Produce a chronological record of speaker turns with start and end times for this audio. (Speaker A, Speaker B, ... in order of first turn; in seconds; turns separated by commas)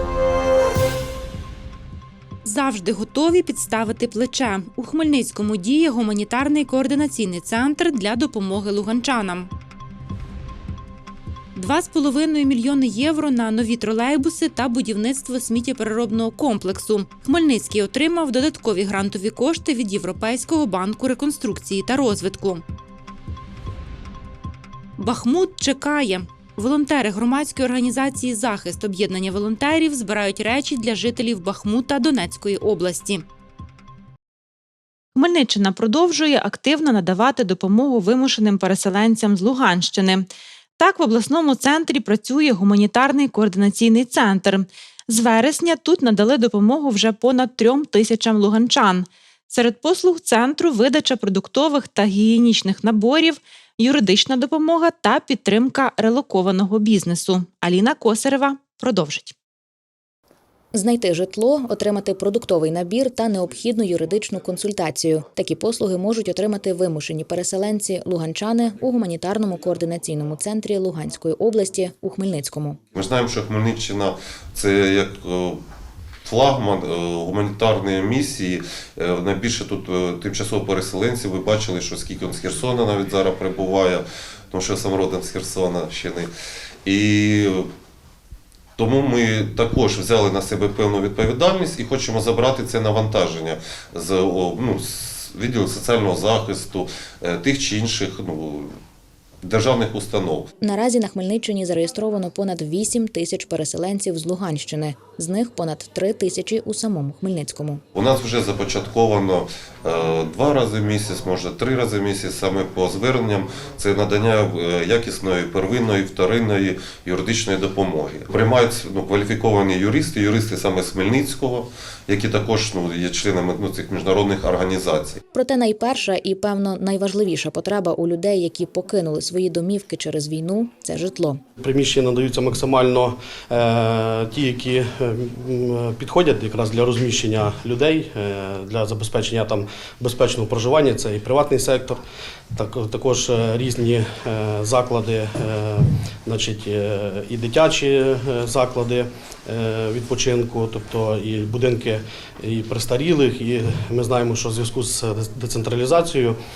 Speaker A: 2.5-9.5, Speaker A: 11.6-22.6, Speaker A: 25.0-33.2, Speaker A: 35.1-40.3, Speaker A: 40.8-59.3, Speaker B: 60.7-72.8, Speaker C: 72.9-75.6, Speaker C: 76.2-86.3, Speaker C: 86.8-87.7, Speaker C: 88.8-98.8, Speaker C: 99.4-100.5, Speaker B: 100.6-107.8, Speaker C: 107.9-125.2, Speaker B: 125.3-131.4, Speaker D: 131.6-141.9, Speaker D: 142.6-156.2